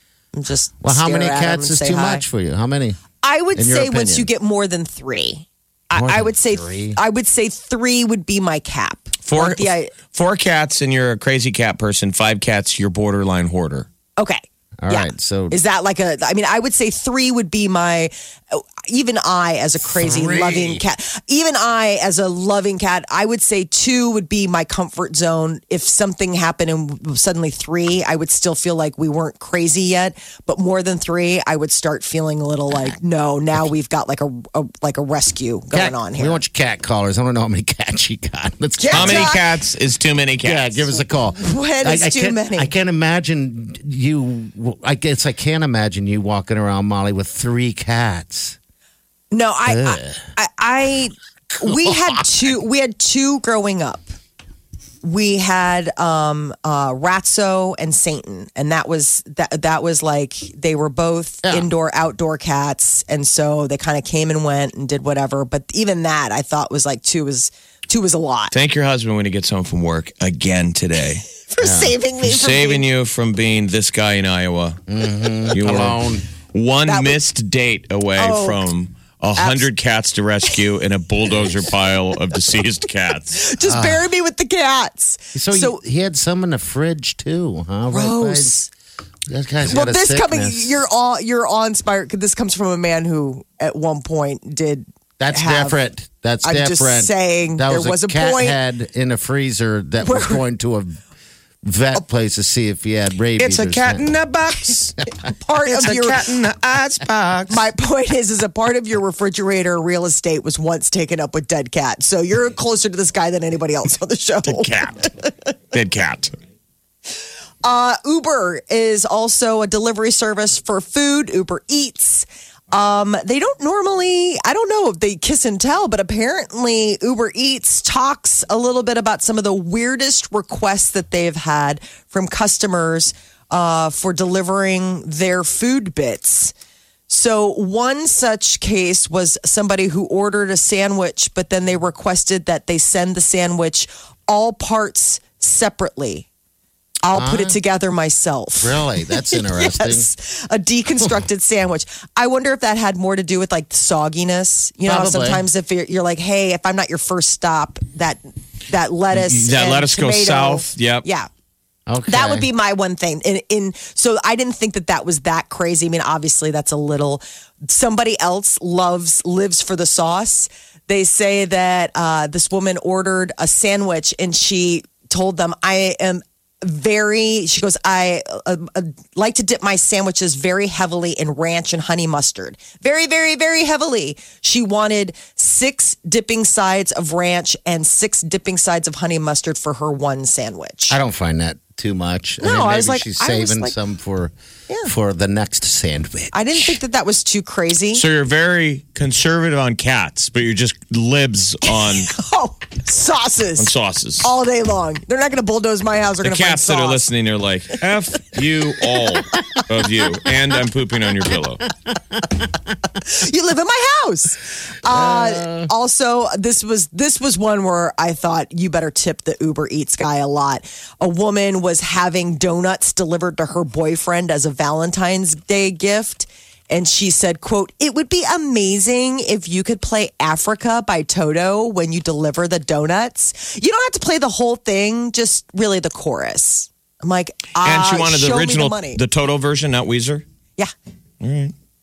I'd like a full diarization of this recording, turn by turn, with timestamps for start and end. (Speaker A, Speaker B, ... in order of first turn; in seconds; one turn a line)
Speaker A: 0.3-2.2
Speaker B: 0.8-3.0
Speaker A: 3.2-9.9
Speaker B: 3.5-4.3
Speaker B: 5.9-7.0
Speaker C: 9.2-13.9
Speaker A: 14.2-36.4
Speaker B: 14.8-15.6
Speaker B: 19.9-20.8
Speaker B: 35.7-39.4
Speaker A: 38.8-39.5
Speaker C: 38.9-40.8
Speaker B: 40.4-48.6
Speaker A: 41.4-42.7
Speaker A: 49.3-54.1
Speaker B: 49.7-50.3
Speaker B: 51.5-52.6
Speaker A: 55.0-68.5
Speaker C: 68.5-71.3
Speaker A: 71.5-72.9
Speaker B: 71.6-72.0
Speaker C: 72.2-74.8
Speaker B: 74.9-76.2
Speaker C: 75.5-76.0
Speaker C: 76.5-83.4
Speaker A: 76.9-77.2
Speaker A: 78.2-78.7
Speaker A: 79.4-79.7
Speaker A: 83.4-85.7
Speaker B: 83.6-84.1
Speaker B: 85.3-88.6
Speaker A: 87.9-88.7
Speaker B: 89.3-90.8
Speaker A: 89.7-95.8
Speaker B: 95.2-101.0
Speaker A: 96.4-98.6
Speaker A: 100.0-100.4
Speaker B: 101.7-104.1
Speaker C: 103.4-105.0
Speaker A: 105.3-106.3
Speaker C: 105.7-107.6
Speaker B: 105.8-106.2
Speaker A: 107.5-115.3
Speaker C: 114.5-115.0
Speaker C: 115.7-116.3
Speaker A: 117.6-136.5
Speaker A: 137.1-146.3
Speaker A: 147.0-161.3
Speaker B: 147.1-147.6
Speaker B: 148.6-150.1
Speaker B: 154.8-155.5
Speaker C: 159.1-161.1
Speaker B: 161.9-162.5
Speaker A: 162.1-191.0
Speaker B: 190.9-194.3
Speaker A: 192.4-193.8
Speaker B: 194.9-196.8
Speaker A: 196.3-198.0
Speaker C: 197.9-202.1
Speaker A: 201.8-203.7
Speaker C: 203.6-204.3
Speaker A: 204.2-207.1
Speaker C: 206.2-211.7
Speaker A: 213.0-239.0
Speaker B: 214.9-215.7
Speaker C: 237.6-240.2
Speaker C: 241.2-241.5